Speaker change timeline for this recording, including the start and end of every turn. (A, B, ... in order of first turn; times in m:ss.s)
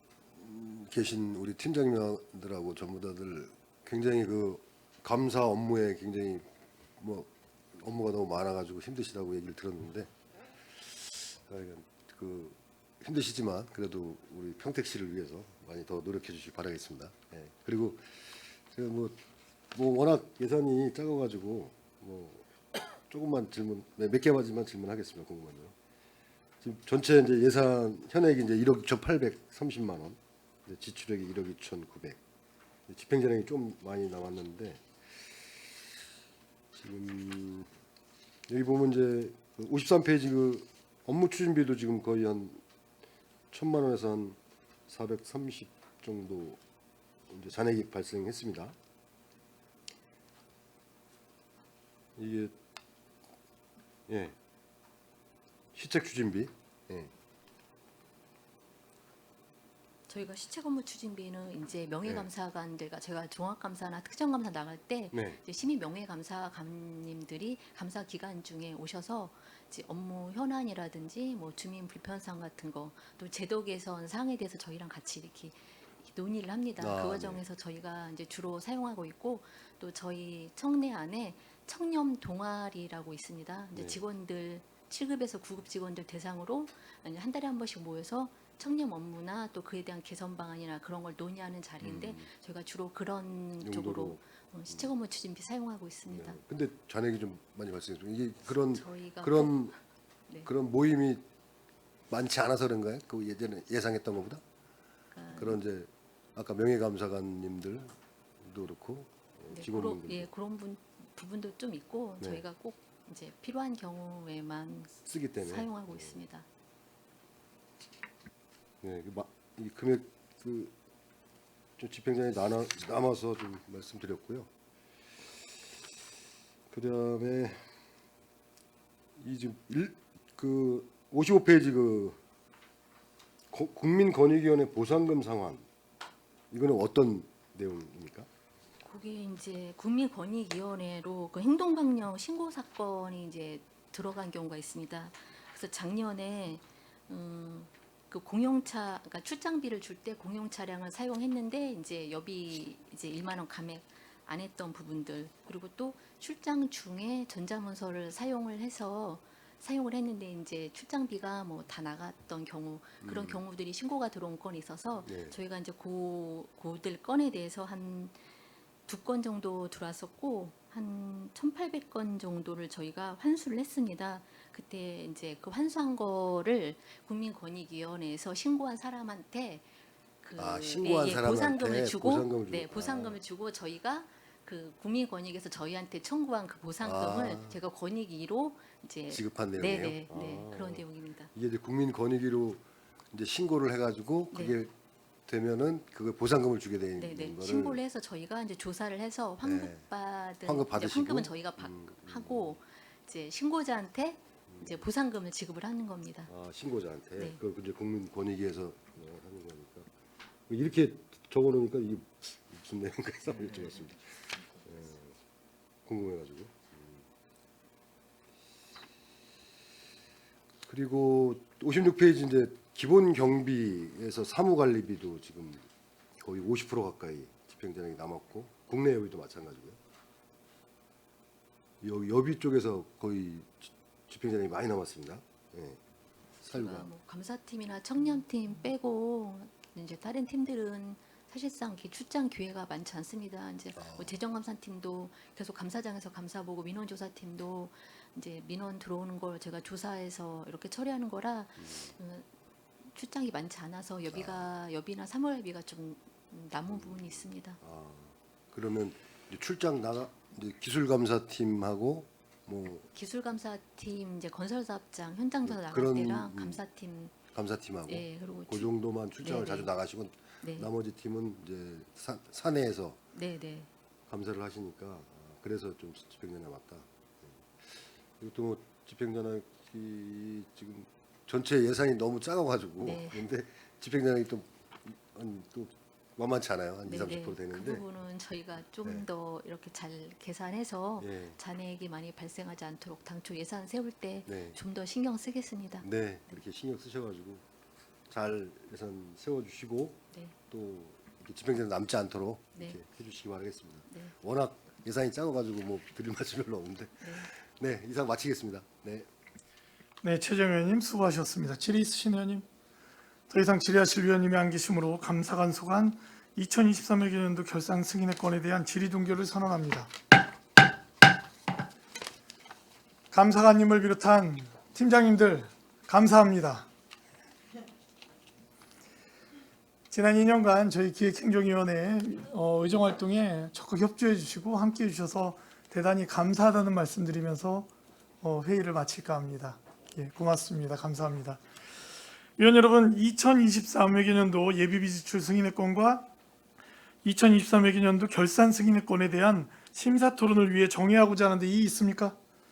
0:00.3-0:06.5 A
0:07.0-0:10.1 A
0:10.8-0:19.2 A
0:19.7-0:22.5 A
0:23.1-0:25.7 A
0:26.6-0:32.2 A
0:32.9-0:34.8 A
0:36.7-0:37.7 A
0:38.5-0:42.6 A
0:43.5-0:46.6 A
0:47.3-0:48.8 A
0:52.2-0:52.5 A
0:54.1-0:54.3 A
0:55.7-0:57.1 A
1:00.1-1:36.4 B
1:05.1-1:05.4 A
1:16.8-1:17.4 A
1:31.8-1:32.3 A
1:33.6-1:34.9 A
1:36.1-1:39.7 A
1:38.6-1:39.7 B
1:40.4-1:41.3 A
1:42.1-1:44.4 A
1:45.1-1:45.6 B
1:45.3-1:50.3 A
1:49.5-1:56.4 B
1:55.0-1:56.2 A
1:58.8-2:00.7 A
2:01.8-2:04.5 A
2:06.7-2:07.6 A
2:09.2-2:12.2 A
2:13.5-2:15.6 A
2:16.5-2:18.3 A
2:18.8-2:48.2 B
2:43.0-2:43.4 A
2:45.0-2:45.4 A
2:48.8-2:59.6 B
3:00.2-3:11.3 B
3:00.4-3:03.2 A
3:06.8-3:07.6 A
3:09.1-3:14.7 A
3:14.3-3:14.6 B
3:15.3-3:17.8 A
3:17.0-3:26.3 B
3:19.4-3:19.8 A
3:20.4-3:22.6 A
3:24.5-3:24.8 A
3:26.3-3:29.9 A
3:30.5-3:34.1 A
3:33.4-3:34.7 B
3:34.6-3:35.2 A
3:35.8-3:37.0 A
3:40.6-3:45.7 A
3:46.2-3:49.8 A
3:51.8-3:55.8 A
3:56.4-3:56.9 A
3:56.4-4:12.3 B
4:03.8-4:04.2 A
4:11.6-4:11.9 A
4:12.9-4:17.6 B
4:14.1-4:14.5 A
4:16.7-4:22.9 A
4:22.9-4:27.1 B
4:25.4-4:26.6 A
4:27.3-4:33.0 A
4:27.9-4:29.7 B
4:30.4-4:30.7 B
4:33.1-4:33.7 B
4:34.1-4:47.8 A
4:42.8-4:43.2 B
4:46.8-4:55.9 B
4:51.0-4:51.4 A
4:54.3-4:54.6 A
4:55.8-4:57.4 A
4:58.1-5:09.1 A
5:03.9-5:04.1 B
5:07.0-5:07.3 B
5:10.0-5:12.4 C
5:13.3-5:19.9 C
5:23.1-5:26.7 C
5:29.9-5:37.7 C
5:38.2-5:41.4 C
5:42.4-5:46.1 C
5:47.0-5:52.2 C